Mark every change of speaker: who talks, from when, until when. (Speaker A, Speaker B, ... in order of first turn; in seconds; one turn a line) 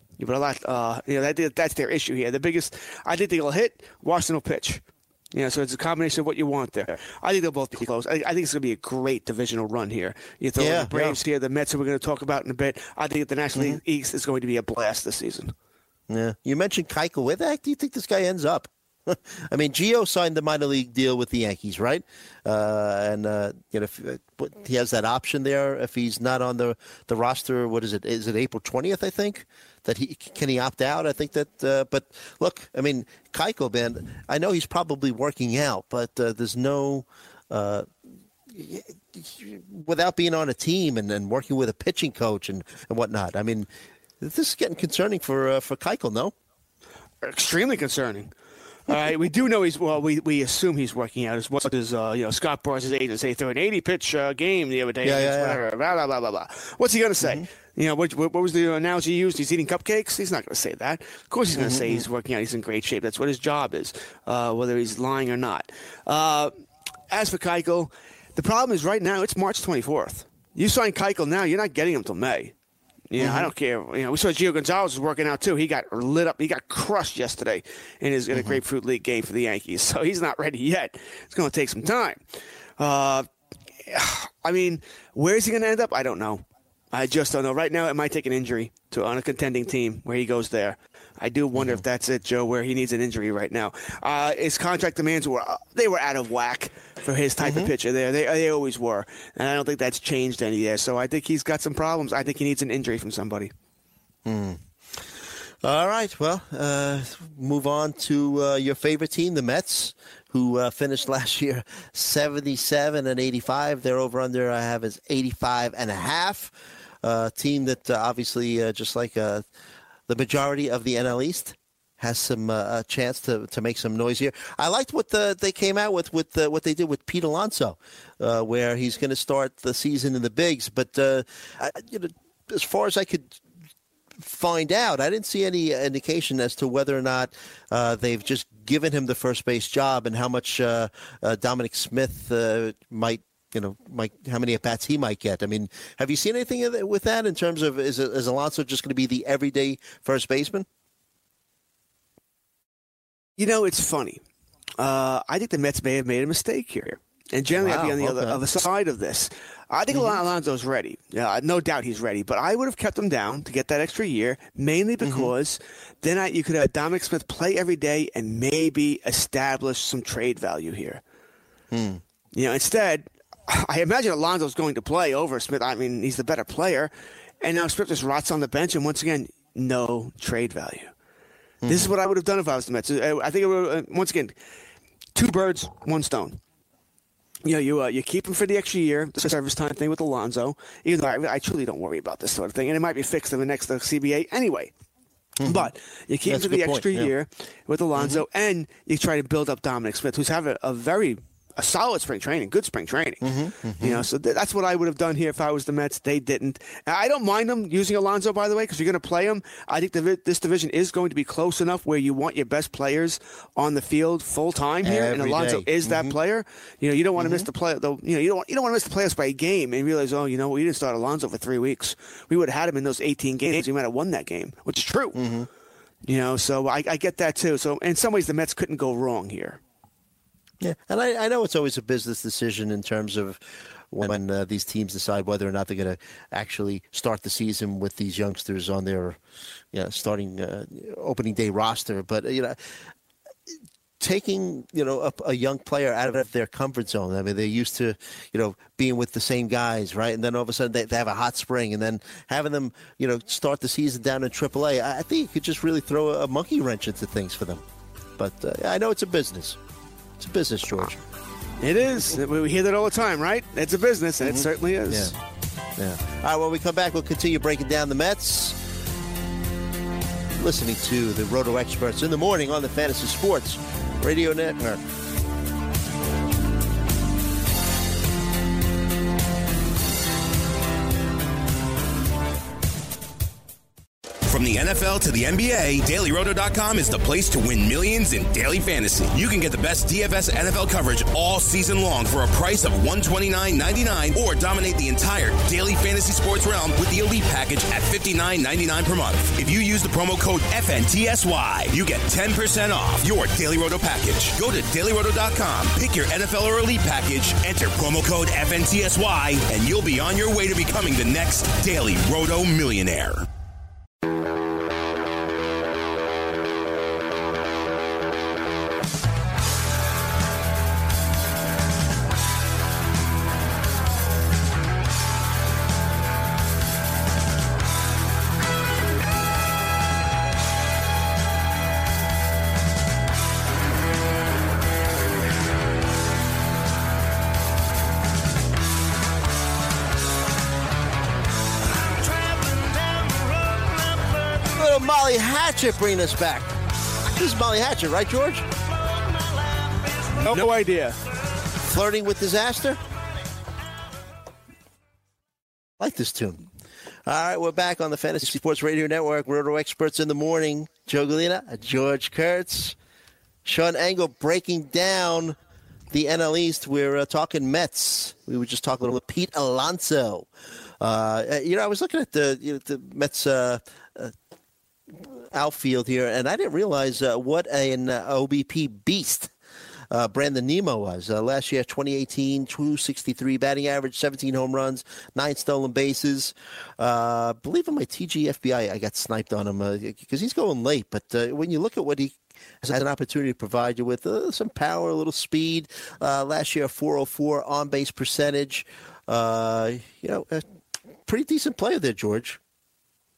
Speaker A: 0.2-15.5
Speaker B: 10.6-11.2
Speaker B: 16.1-37.9
Speaker B: 38.5-43.7
Speaker B: 44.2-46.3
Speaker A: 47.2-48.3
Speaker A: 48.9-66.5
Speaker B: 55.0-55.6
Speaker B: 61.5-62.0
Speaker A: 67.1-72.5
Speaker A: 73.1-82.2
Speaker B: 73.2-73.5
Speaker B: 78.3-78.6
Speaker A: 82.8-83.3
Speaker A: 83.8-103.5
Speaker B: 97.4-97.7
Speaker B: 104.2-104.6
Speaker B: 105.6-119.5
Speaker B: 120.1-133.4
Speaker B: 134.2-150.7
Speaker A: 153.4-154.2
Speaker A: 154.8-171.0
Speaker B: 157.5-158.4
Speaker B: 159.9-160.2
Speaker B: 165.0-165.3
Speaker B: 171.7-172.0
Speaker A: 172.3-180.9
Speaker B: 181.6-181.9
Speaker A: 181.7-184.3
Speaker A: 185.1-186.4
Speaker A: 187.4-194.7
Speaker B: 195.4-195.7
Speaker A: 195.4-225.2
Speaker B: 196.2-197.1
Speaker B: 197.9-198.2
Speaker B: 203.2-204.1
Speaker B: 214.8-216.1
Speaker B: 217.2-217.4
Speaker B: 225.1-225.5
Speaker A: 226.1-229.6
Speaker B: 230.6-239.2
Speaker B: 239.7-242.6
Speaker B: 244.0-257.6
Speaker B: 258.2-259.6
Speaker B: 260.2-261.0
Speaker A: 261.6-265.1
Speaker B: 264.2-265.1
Speaker B: 265.8-268.6
Speaker B: 270.4-274.8
Speaker C: 284.2-313.3
Speaker B: 344.3-348.5
Speaker B: 350.1-350.4
Speaker A: 350.2-350.9
Speaker B: 351.5-352.8
Speaker B: 355.8-356.4
Speaker B: 357.1-362.8
Speaker B: 363.4-365.4
Speaker B: 365.9-370.3
Speaker B: 370.8-374.1
Speaker B: 374.9-379.3
Speaker B: 379.9-400.4
Speaker B: 401.0-402.4